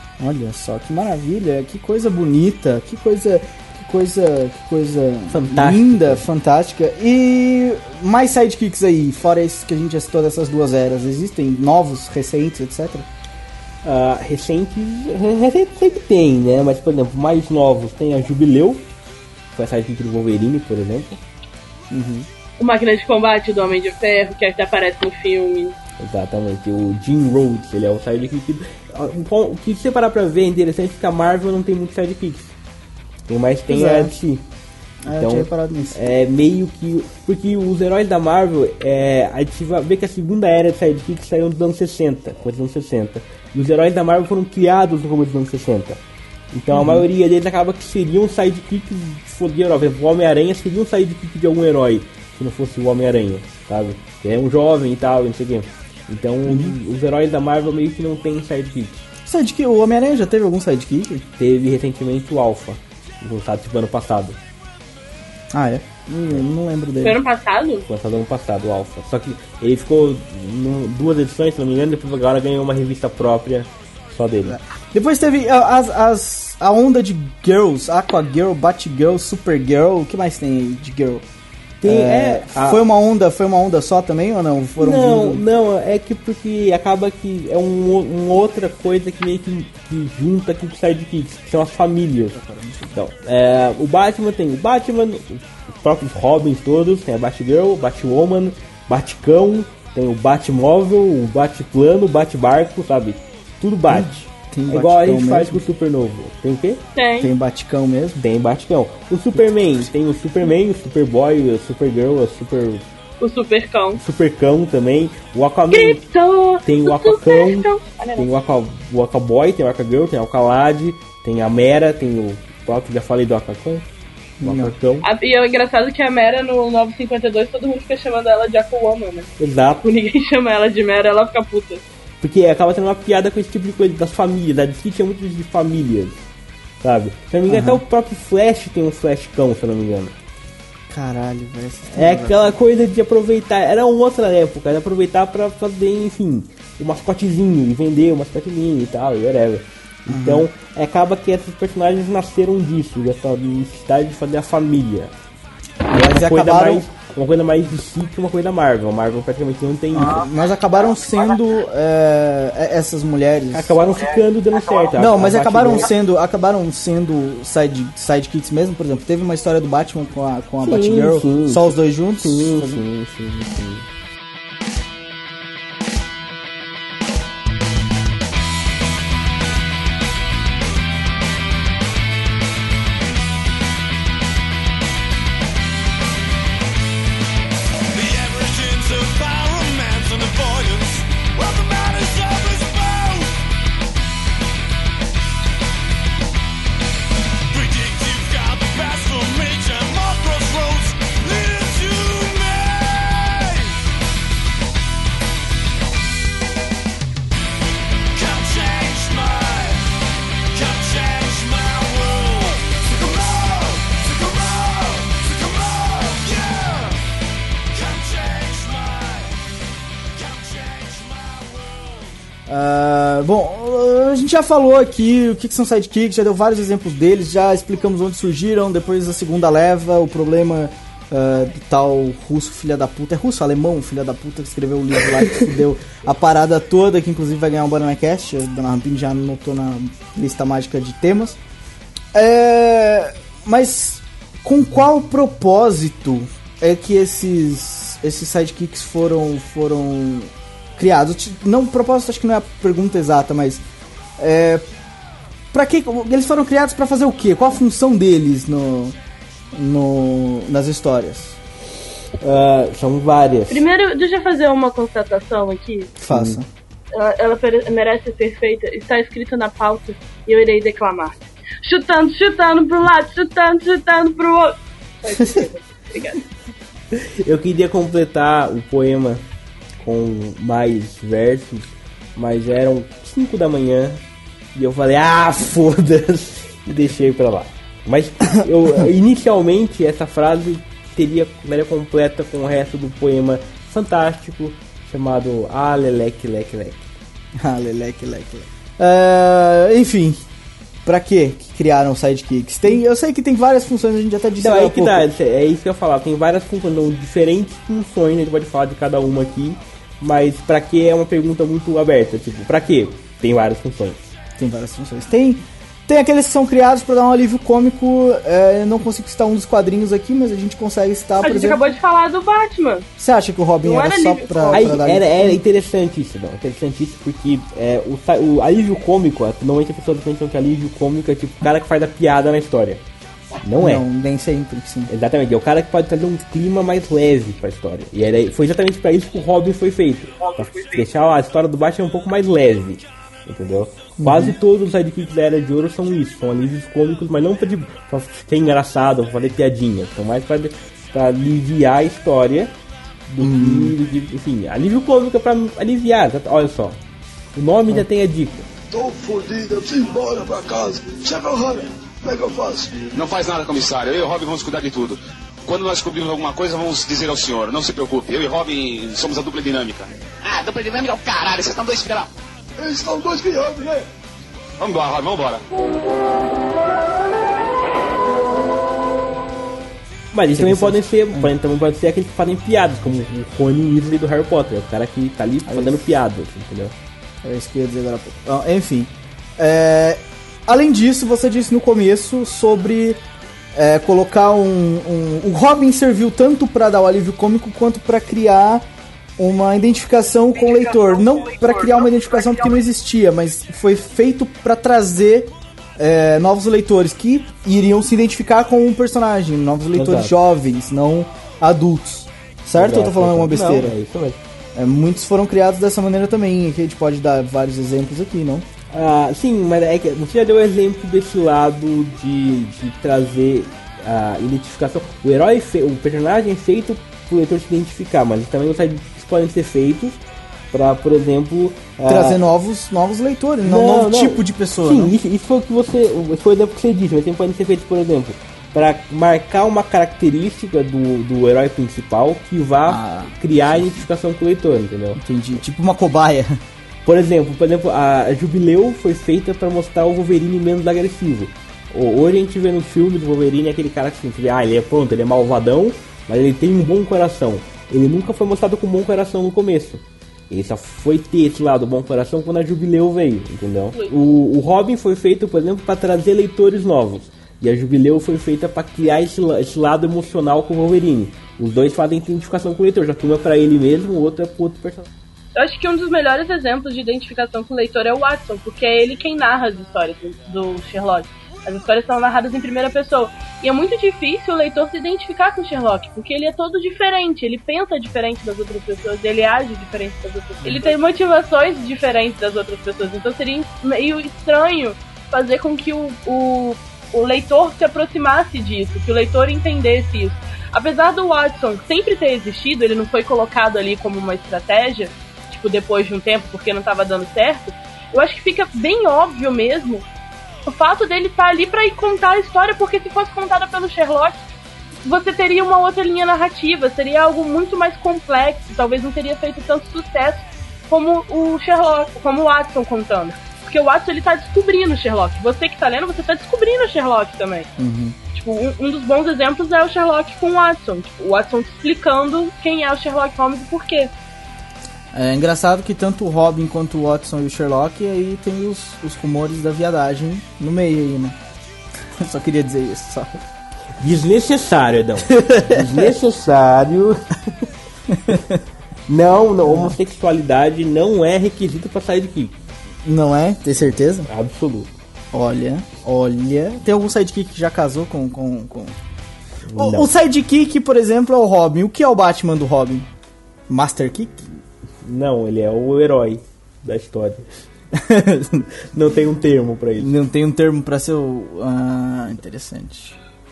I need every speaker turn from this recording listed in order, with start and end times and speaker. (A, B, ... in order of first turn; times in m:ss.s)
0:00.2-0:13.0 A
0:05.3-0:06.2 B
0:13.8-0:18.8 B
0:19.5-0:21.2 B
0:21.9-0:22.3 A
0:22.6-0:25.7 C
0:26.0-0:32.5 B
0:33.3-0:34.4 B
0:33.7-0:34.1 A
0:35.0-0:36.0 A
0:35.1-0:46.0 B
0:46.5-0:59.0 B
0:46.7-0:47.1 A
0:56.5-0:56.7 A
0:59.2-1:01.2 A
1:01.4-1:04.4 B
1:05.5-1:07.2 A
1:07.0-1:07.8 C
1:07.9-1:14.6 B
1:14.5-1:21.2 A
1:21.8-1:22.8 B
1:21.8-1:25.4 A
1:24.8-1:32.4 B
1:32.3-1:32.9 A
1:32.9-1:44.2 B
1:43.9-1:45.6 A
1:44.7-1:46.8 B
1:47.0-1:47.3 C
1:47.2-1:48.2 A
1:48.2-1:52.8 B
1:49.3-1:49.6 A
1:53.2-1:54.0 C
1:54.0-1:56.0 B
1:55.7-1:58.2 C
1:56.6-2:03.8 B
2:04.4-2:04.7 A
2:04.4-2:05.0 B
2:05.0-2:09.3 C
2:09.4-2:09.8 B
2:09.8-2:11.8 C
2:12.2-2:16.2 B
2:16.8-2:20.1 B
2:17.5-2:17.8 A
2:20.9-2:22.6 A
2:21.9-2:35.1 B
2:30.1-2:30.5 A
2:35.9-2:36.8 A
2:35.9-2:40.2 B
2:39.9-2:43.8 A
2:43.5-2:45.9 B
2:44.9-2:52.8 A
2:50.6-2:51.6 B
2:52.2-2:53.8 B
3:08.0-3:08.3 D
3:09.3-3:10.8 D
3:11.4-3:13.2 D
3:17.5-3:20.7 D
3:21.2-3:23.1 D
3:32.8-3:36.9 D
3:37.8-3:38.9 D
3:42.5-4:01.4 A
4:02.1-4:13.6 A
4:14.2-4:14.6 A
4:15.5-4:18.9 A
4:19.5-4:21.4 A
4:22.2-4:23.6 B
4:23.5-4:25.9 C
4:26.0-4:26.5 A
4:26.1-4:26.4 B
4:26.9-4:36.2 C
4:36.9-4:39.2 B
4:39.8-4:44.0 B
4:44.5-4:56.9 B
4:57.4-5:00.2 A
5:00.8-5:05.1 A
5:04.4-5:14.0 B
5:14.4-5:21.6 A
5:21.2-5:22.8 C
5:23.0-5:25.4 A
5:23.6-5:24.7 C
5:24.5-5:32.8 B
5:33.4-5:33.8 B
5:33.6-5:34.9 A
5:34.9-5:52.5 B
5:40.2-5:40.8 C
5:44.0-5:44.3 A
5:53.1-5:56.8 B
5:53.2-5:53.8 A
5:57.3-5:58.5 B
5:58.7-6:03.0 D
6:03.3-6:04.9 E
6:03.4-6:04.8 F
6:05.5-6:12.0 E
6:05.6-6:09.8 F
6:10.4-6:12.0 F
6:12.6-6:13.8 D
6:14.7-6:15.4 E
6:20.1-6:26.7 B
6:20.4-6:21.3 A
6:25.5-6:25.8 A
6:27.2-6:33.0 A
6:33.5-6:38.6 A
6:39.2-6:53.7 A
6:41.2-6:41.5 C
6:49.7-6:50.1 B
6:52.6-6:54.2 B
6:54.5-6:58.4 A
6:58.7-7:10.0 B
7:10.5-7:12.2 B
7:11.8-7:14.9 A
7:13.4-7:25.0 B
7:22.7-7:23.2 A
7:25.0-7:26.4 A
7:26.8-7:54.9 B
7:55.4-8:29.8 C
8:30.4-8:34.2 C
8:34.8-8:47.5 C
8:47.6-8:48.0 A
8:48.1-8:53.9 C
8:54.9-9:01.2 A
9:02.0-9:03.1 A
9:03.8-9:07.0 B
9:05.1-9:05.9 A
9:07.9-9:08.4 A
9:08.9-9:12.3 B
9:09.4-9:09.8 A
9:12.8-9:14.1 A
9:14.1-9:14.7 B
9:15.1-9:18.8 A
9:19.4-9:19.9 B
9:19.6-9:22.9 A
9:23.5-9:24.3 A
9:24.8-9:27.3 B
9:27.7-9:28.5 A
9:28.7-9:29.9 B
9:29.8-9:33.0 A